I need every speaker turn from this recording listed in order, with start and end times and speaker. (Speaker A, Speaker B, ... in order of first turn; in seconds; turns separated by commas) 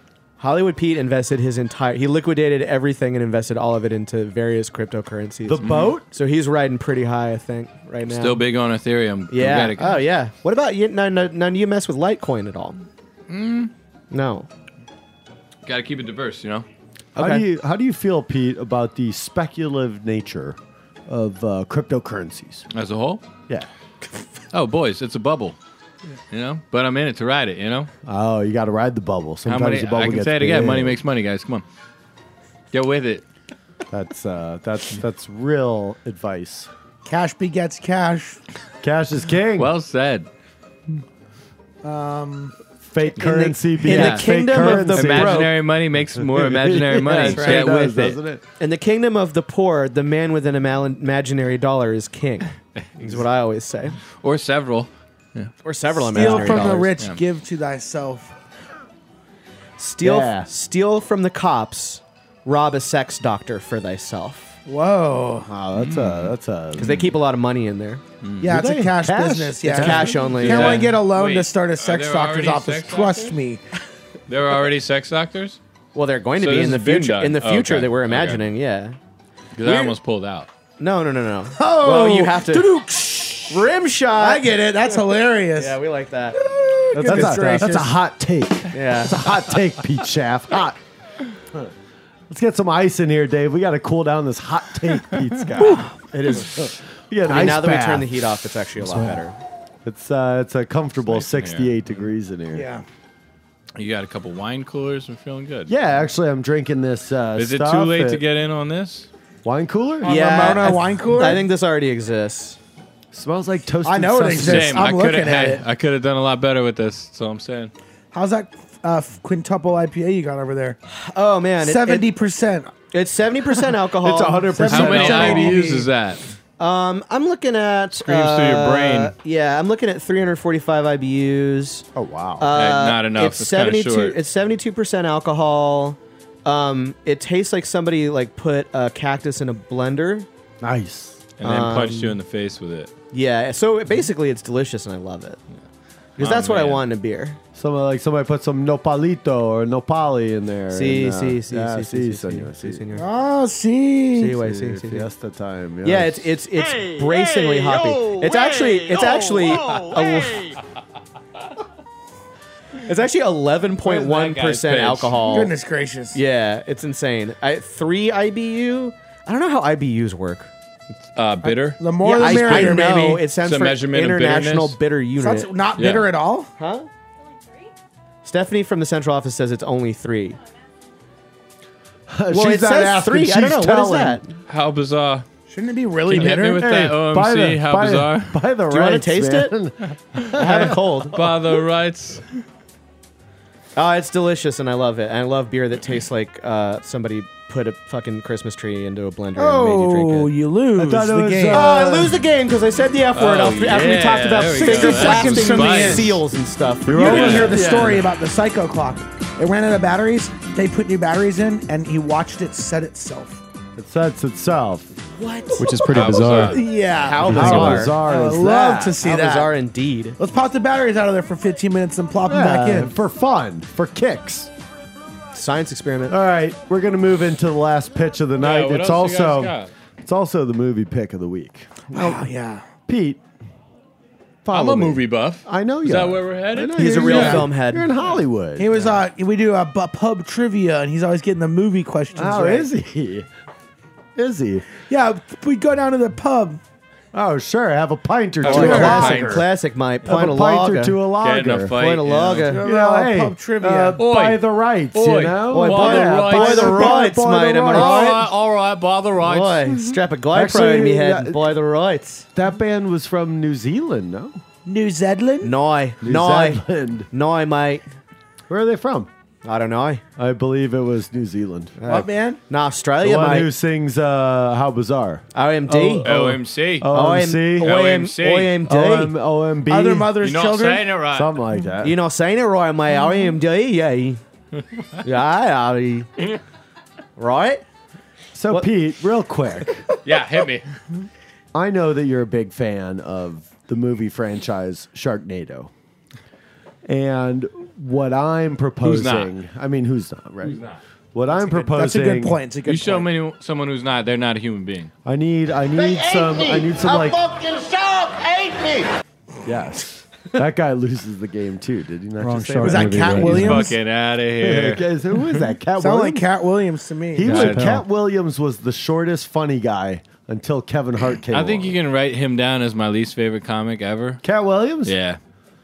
Speaker A: 0.4-8.4, Speaker B: 5.5-6.0, Speaker C: 5.6-5.9, Speaker C: 8.1-10.1, Speaker A: 9.3-12.8, Speaker C: 13.3-13.7, Speaker A: 14.1-14.5, Speaker C: 15.7-16.7, Speaker A: 17.2-17.5, Speaker B: 17.2-22.7, Speaker C: 22.7-23.2, Speaker C: 24.5-25.6, Speaker C: 26.3-27.9, Speaker B: 28.1-31.0, Speaker C: 29.5-31.6, Speaker C: 32.7-33.2, Speaker B: 33.9-36.7, Speaker D: 37.0-38.4, Speaker B: 38.8-39.7, Speaker C: 39.6-40.3, Speaker D: 41.8-42.5, Speaker B: 42.8-45.5, Speaker A: 43.1-45.5, Speaker C: 43.9-48.2, Speaker B: 46.1-48.4, Speaker D: 47.2-47.7, Speaker A: 48.6-54.0, Speaker C: 54.2-55.5, Speaker A: 55.6-56.9, Speaker D: 56.1-58.3, Speaker C: 56.1-57.2, Speaker A: 59.8-64.6, Speaker B: 60.0-60.5, Speaker D: 64.7-65.5, Speaker B: 65.5-67.1, Speaker C: 65.8-66.3, Speaker A: 66.8-68.0, Speaker C: 68.2-68.5, Speaker B: 68.4-70.3, Speaker D: 68.4-73.6, Speaker A: 69.7-70.9, Speaker C: 70.2-73.4, Speaker C: 74.3-75.6, Speaker A: 76.0-79.0, Speaker C: 76.4-78.5, Speaker C: 79.6-80.5, Speaker A: 79.6-79.9, Speaker A: 80.8-82.7, Speaker D: 81.6-85.8, Speaker A: 83.5-84.5, Speaker A: 85.6-86.4, Speaker D: 86.4-88.0, Speaker B: 86.9-90.8, Speaker A: 87.1-87.3, Speaker A: 88.7-89.2, Speaker B: 92.3-95.9, Speaker A: 95.6-96.7, Speaker B: 96.5-98.3, Speaker A: 97.3-99.4, Speaker B: 98.9-99.2, Speaker B: 99.8-102.7, Speaker C: 101.1-102.1, Speaker D: 102.5-102.8, Speaker C: 103.8-105.8, Speaker B: 105.7-108.2, Speaker C: 107.4-109.1, Speaker B: 109.5-110.4, Speaker A: 110.0-112.6, Speaker D: 110.0-111.4, Speaker B: 113.1-114.9, Speaker D: 113.8-115.6, Speaker C: 114.3-117.7, Speaker D: 118.1-120.8, Speaker A: 120.9-122.1, Speaker D: 121.6-122.7, Speaker A: 122.9-124.6, Speaker B: 124.0-125.6, Speaker D: 124.5-125.9, Speaker C: 124.7-126.2, Speaker A: 126.6-131.9, Speaker C: 128.0-129.1, Speaker B: 131.9-132.5, Speaker A: 132.4-140.3, Speaker C: 132.6-134.2, Speaker B: 140.6-141.2, Speaker C: 141.4-142.9, Speaker A: 141.4-142.2, Speaker A: 143.1-145.4, Speaker C: 146.2-146.8, Speaker A: 146.2-147.4, Speaker B: 147.6-152.8, Speaker A: 150.7-153.1, Speaker D: 152.9-154.4, Speaker A: 154.2-155.1, Speaker B: 154.3-156.3, Speaker A: 155.8-160.6, Speaker E: 157.4-157.8, Speaker A: 162.8-165.5, Speaker C: 163.8-165.2, Speaker D: 165.2-166.2, Speaker A: 166.1-170.5, Speaker C: 171.1-174.8, Speaker D: 171.4-173.2, Speaker A: 172.0-175.5, Speaker D: 175.2-176.5, Speaker C: 175.8-176.1, Speaker A: 176.6-176.9, Speaker A: 178.2-180.4, Speaker B: 182.1-184.3, Speaker A: 182.3-184.2, Speaker C: 184.5-185.2, Speaker D: 185.5-186.7, Speaker C: 186.1-188.4, Speaker B: 186.2-191.3, Speaker A: 188.7-189.5, Speaker C: 190.2-192.4, Speaker A: 190.4-191.2, Speaker A: 193.8-200.3, Speaker D: 199.4-201.7, Speaker B: 200.8-202.2, Speaker A: 201.5-207.6, Speaker C: 203.1-206.2, Speaker D: 204.5-206.2, Speaker B: 206.8-208.1, Speaker D: 206.9-213.4, Speaker C: 207.0-207.6, Speaker B: 213.8-214.9, Speaker A: 215.2-215.7, Speaker F: 215.6-216.6, Speaker C: 215.9-216.6, Speaker D: 216.4-219.5, Speaker A: 216.9-218.0, Speaker B: 217.2-219.0, Speaker A: 219.0-220.2, Speaker D: 220.2-222.9, Speaker B: 222.2-224.5, Speaker A: 225.3-226.2, Speaker B: 226.1-232.2, Speaker C: 228.4-229.7, Speaker D: 231.9-232.7, Speaker B: 232.9-233.2, Speaker B: 234.4-238.8, Speaker C: 234.5-238.2, Speaker A: 236.6-237.9, Speaker D: 238.6-242.7, Speaker B: 242.1-243.3, Speaker B: 244.2-244.7, Speaker D: 244.9-246.6, Speaker B: 247.1-249.5, Speaker C: 248.4-249.5, Speaker A: 248.4-251.0, Speaker B: 250.0-251.8, Speaker C: 251.2-252.6, Speaker A: 251.8-252.6, Speaker D: 252.5-254.0, Speaker B: 252.6-258.0, Speaker C: 254.0-256.9, Speaker A: 255.5-258.3, Speaker D: 256.7-257.1, Speaker C: 257.7-259.9, Speaker A: 259.2-262.3, Speaker B: 260.3-261.5, Speaker B: 262.3-264.4, Speaker D: 264.7-265.5, Speaker A: 265.4-267.9, Speaker B: 266.0-267.1, Speaker B: 268.5-269.1, Speaker A: 269.4-270.0, Speaker B: 270.2-271.8, Speaker A: 271.8-273.5, Speaker D: 271.9-272.4, Speaker B: 273.0-277.8, Speaker A: 275.4-276.1, Speaker C: 276.0-276.9, Speaker A: 276.9-279.1, Speaker C: 277.6-278.6, Speaker B: 278.7-280.2, Speaker D: 279.7-280.9, Speaker C: 280.2-281.4, Speaker B: 281.1-282.0, Speaker A: 281.8-284.2, Speaker A: 285.0-286.1, Speaker A: 287.2-287.6, Speaker B: 288.3-289.9, Speaker C: 290.0-290.6, Speaker B: 291.5-295.7, Speaker B: 296.9-300.6, Speaker C: 298.8-299.3, Speaker C: 300.4-300.8, Speaker B: 301.1-302.4, Speaker D: 301.3-303.1, Speaker C: 302.6-304.9, Speaker B: 305.1-307.2, Speaker E: 305.7-308.9, Speaker B: 309.4-313.7, Speaker F: 312.2-313.6, Speaker D: 312.6-313.8, Speaker C: 313.2-315.4, Speaker B: 314.4-316.3, Speaker D: 315.8-317.5, Speaker B: 317.1-321.8, Speaker C: 317.2-317.7, Speaker F: 317.3-317.8, Speaker C: 321.3-324.2, Speaker B: 324.2-325.0, Speaker C: 324.9-325.2